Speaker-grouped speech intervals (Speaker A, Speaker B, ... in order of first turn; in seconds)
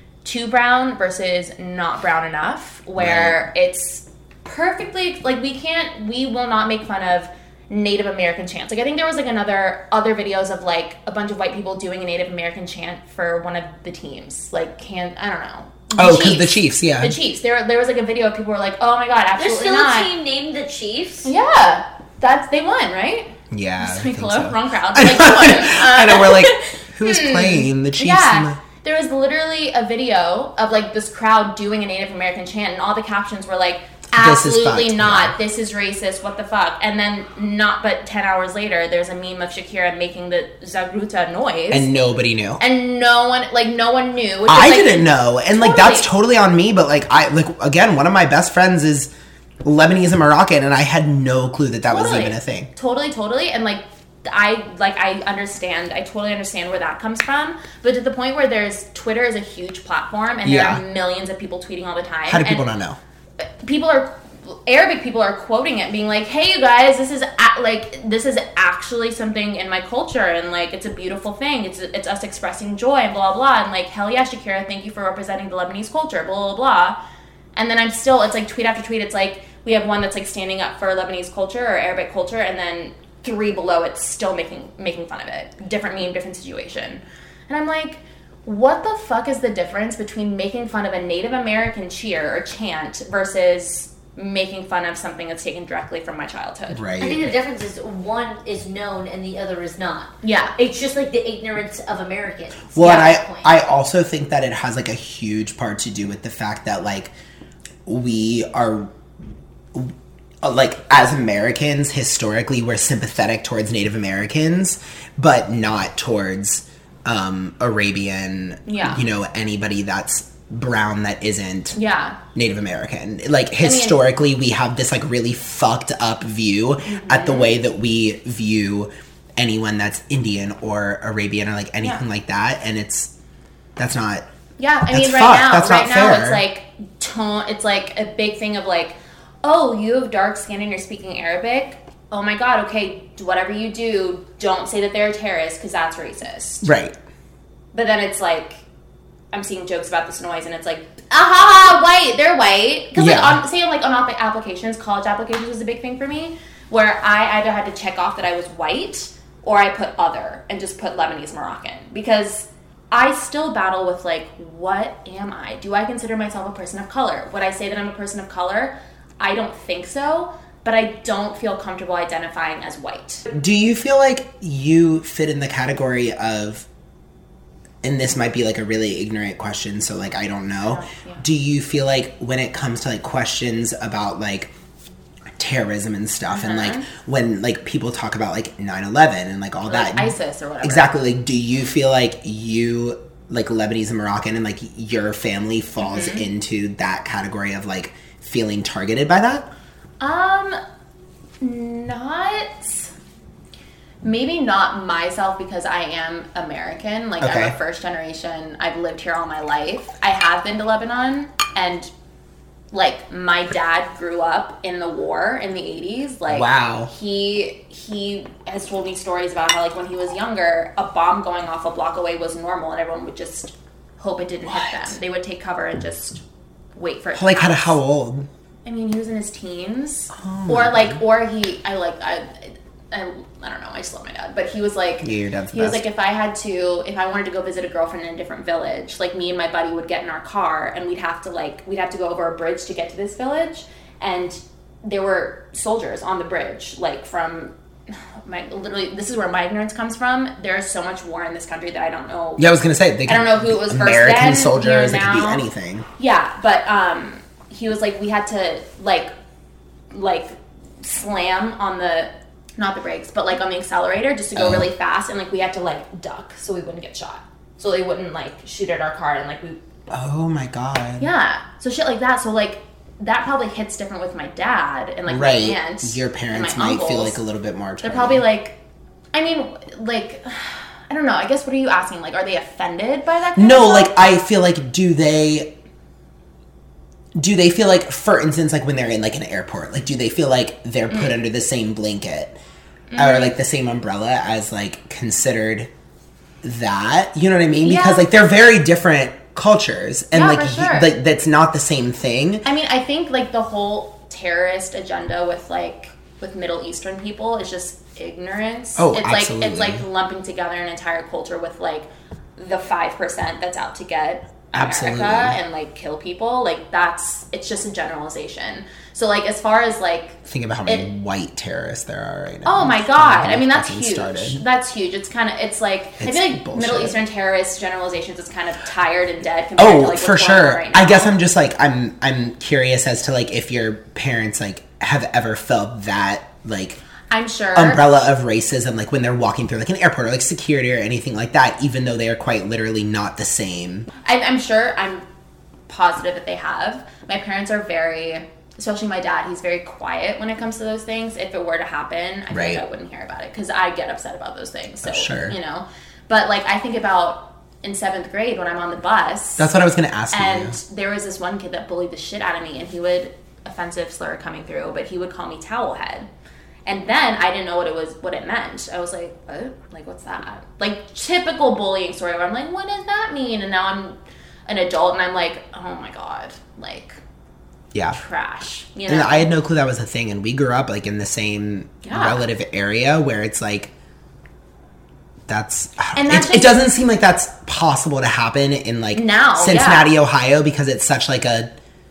Speaker A: 0.2-20.1, 21.2-41.9, 42.6-46.1, 51.9-62.7, 63.4-77.0, 77.6-96.9, 100.2-100.5, 102.8-103.2, 118.7-119.0, 121.7-122.2, 123.6-124.0, 126.8-127.6, 134.6-146.7, 147.7-148.6, 149.3-173.3, 180.6-181.2, 186.3-186.9, 189.7-191.0, 195.8-196.3, 200.0-200.6, 201.4-202.9, 204.0-211.9, 212.7-226.2, 226.8-227.8, 228.7-247.5, 248.2-252.5, 253.1-255.4, 256.0-259.1, 259.9-269.6, 271.0-277.2, 277.8-278.6, 279.1-283.9, 290.9-291.1, 292.9-293.4, 297.6-298.1, 300.1-300.9, 302.4-320.9, 322.4-331.2, 337.1-337.8, 344.0-345.1, 345.7-359.5, 360.1-366.1, 366.7-377.0, 377.9-379.3, 381.8-382.2, 385.9-386.6, 388.9-389.9
Speaker B: 3.0-3.4, 16.0-17.2, 23.5-28.6, 34.2-35.4, 41.7-42.6, 44.5-49.1, 49.6-52.7, 60.5-60.8, 62.3-63.0, 96.7-97.3, 102.8-107.1, 107.8-108.9, 109.7-121.8, 122.3-133.1, 133.8-134.2, 134.9-136.4, 146.6-147.0, 153.0-153.4, 173.3-176.7, 177.8-184.5, 185.4-199.5, 207.2-207.6, 216.3-216.9, 224.5-224.9, 227.2-228.3, 230.2-231.0, 235.0-235.8, 252.4-255.9, 264.4-264.7, 269.9-271.1, 275.1-278.2, 283.4-285.5, 287.2-292.4, 293.0-295.7, 296.4-302.4, 308.8-309.8, 314.5-315.4, 320.3-324.4, 326.0-327.0, 329.6-336.8, 337.6-343.9, 352.3-352.6, 354.8-355.4, 359.4-360.6, 378.9-383.7, 385.3-391.5
Speaker C: 19.4-21.3, 97.0-103.5